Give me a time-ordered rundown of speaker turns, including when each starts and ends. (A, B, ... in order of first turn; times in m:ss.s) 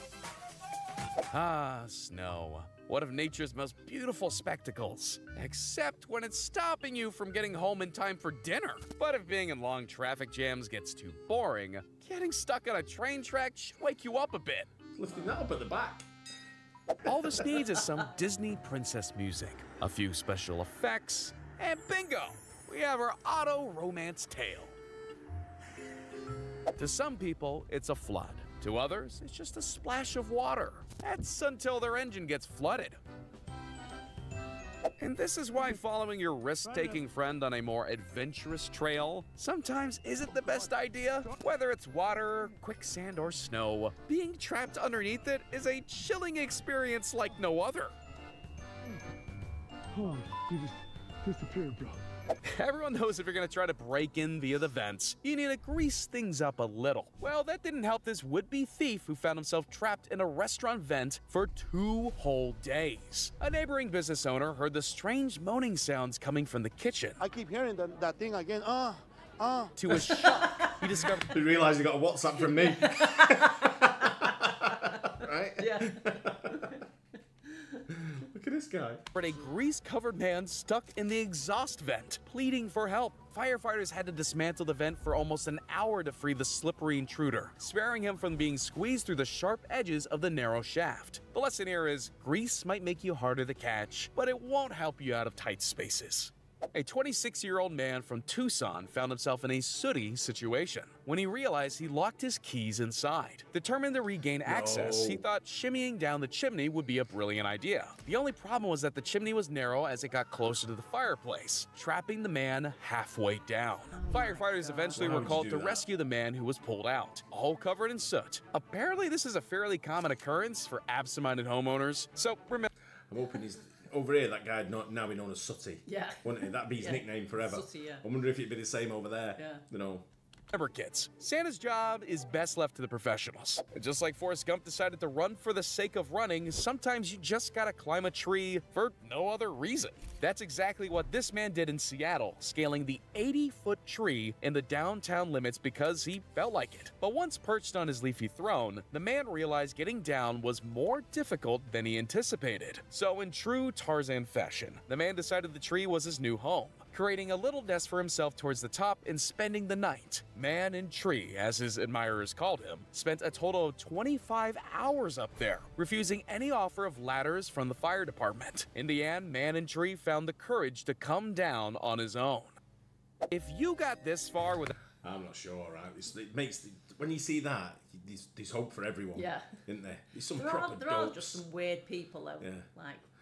0:01.3-0:14.7 A
0:14.9-0:16.1 B
0:17.0-0:24.8 A
0:26.8-0:33.0 A
0:35.0-0:47.9 A
0:50.0-0:52.0 C
0:52.4-1:07.2 A
1:07.2-1:09.7 D
1:09.8-1:11.4 A
1:10.3-1:10.8 E
1:11.3-1:16.8 B
1:12.8-1:16.8 E
1:17.5-1:17.8 E
1:17.9-1:19.0 B
1:19.1-2:02.7 A
1:44.4-1:45.2 B
1:53.9-1:55.0 E
1:54.9-1:55.8 B
2:03.1-2:10.1 B
2:05.9-2:08.0 E
2:09.4-2:09.6 E
2:10.5-2:52.6 A
2:53.3-2:54.7 A
2:55.0-3:01.4 B
2:59.2-2:59.6 E
3:00.3-3:03.1 E
3:02.4-3:02.7 B